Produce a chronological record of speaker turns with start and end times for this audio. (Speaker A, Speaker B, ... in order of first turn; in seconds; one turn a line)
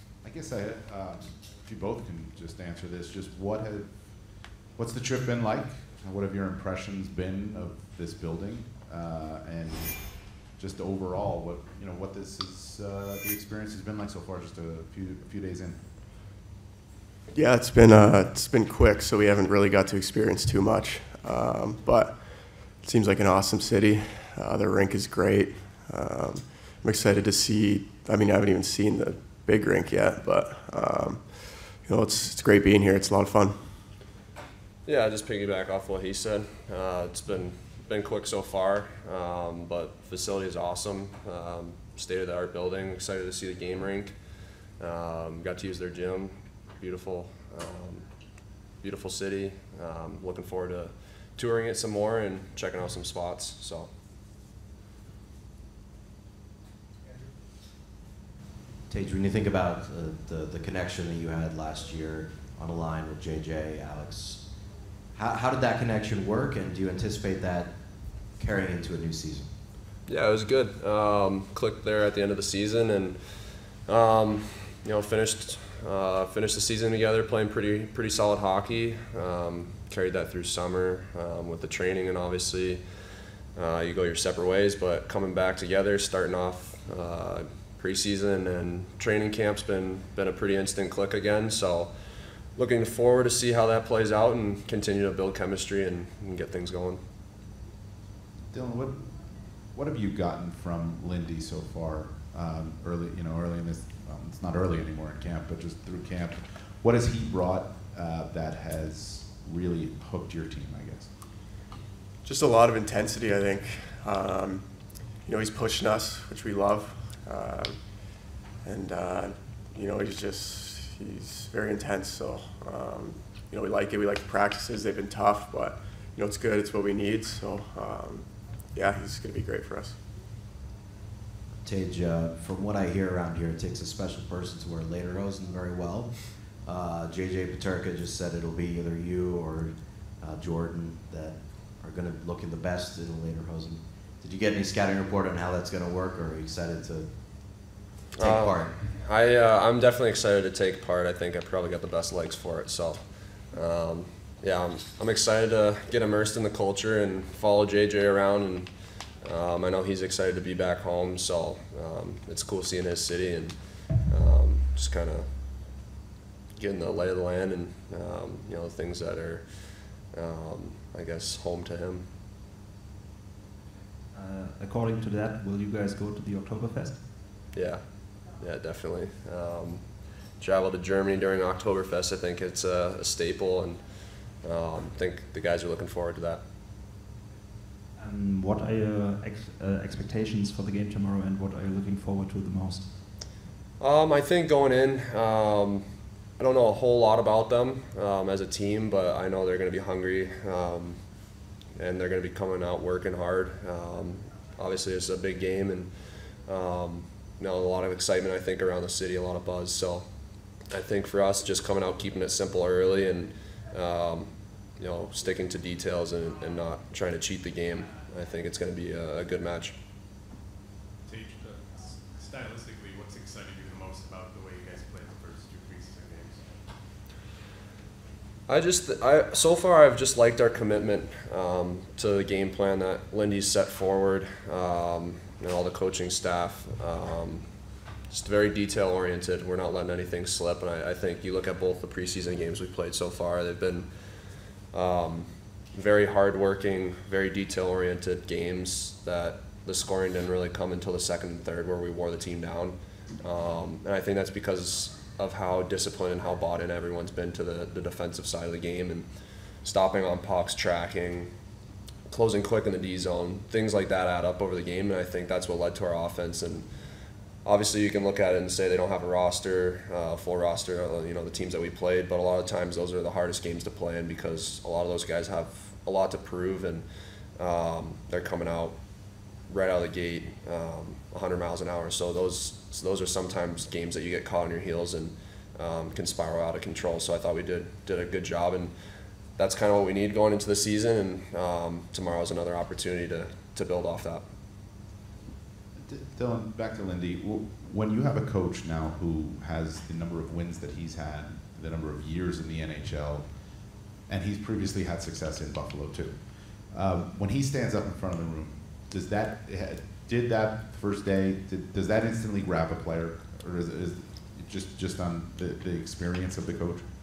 Speaker A: 0.2-15.9
Speaker B: 17.3-33.5
Speaker C: 34.9-48.1
Speaker C: 48.6-53.9
Speaker D: 58.9-69.5
Speaker C: 70.1-97.0
Speaker A: 98.5-111.2
Speaker B: 112.2-130.0
Speaker D: 131.6-148.8
Speaker C: 148.2-165.3
Speaker C: 166.6-172.1
Speaker E: 174.1-177.1
Speaker C: 177.5-186.4
Speaker E: 188.0-193.1
Speaker C: 193.8-201.1
Speaker C: 201.7-210.1
Speaker C: 210.7-219.7
Speaker F: 221.1-226.6
Speaker C: 228.5-261.3
Speaker C: 262.1-276.9
Speaker C: 277.4-288.7
Speaker C: 289.4-294.2
Speaker A: 295.8-316.9